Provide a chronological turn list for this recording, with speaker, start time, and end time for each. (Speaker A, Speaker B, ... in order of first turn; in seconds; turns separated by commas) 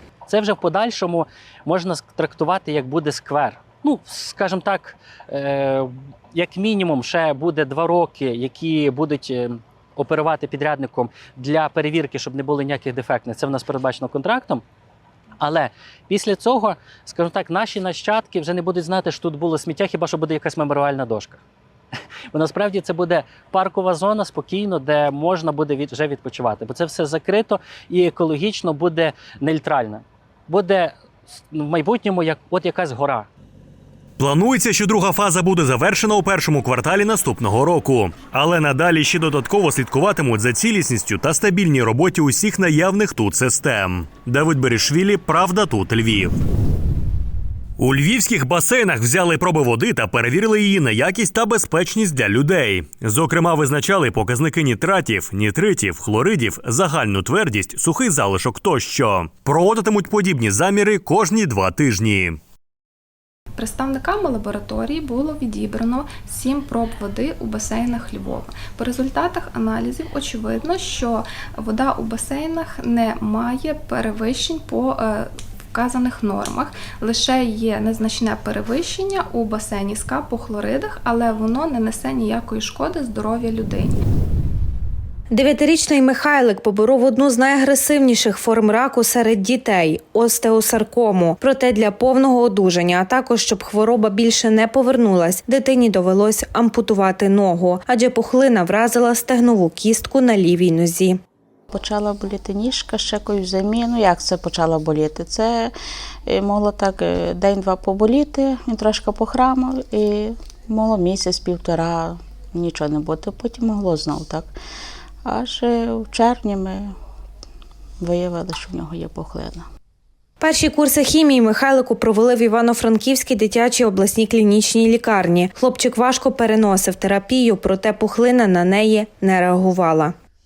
Speaker A: 0.3-14.6, Speaker A: 15.4-21.4, Speaker A: 22.3-30.9, Speaker A: 31.5-33.3, Speaker B: 34.2-46.4, Speaker B: 47.8-62.4, Speaker C: 63.5-84.0, Speaker D: 85.3-101.2, Speaker E: 101.7-105.7, Speaker E: 106.3-114.5, Speaker E: 115.2-116.9, Speaker E: 118.0-119.6, Speaker D: 120.4-130.1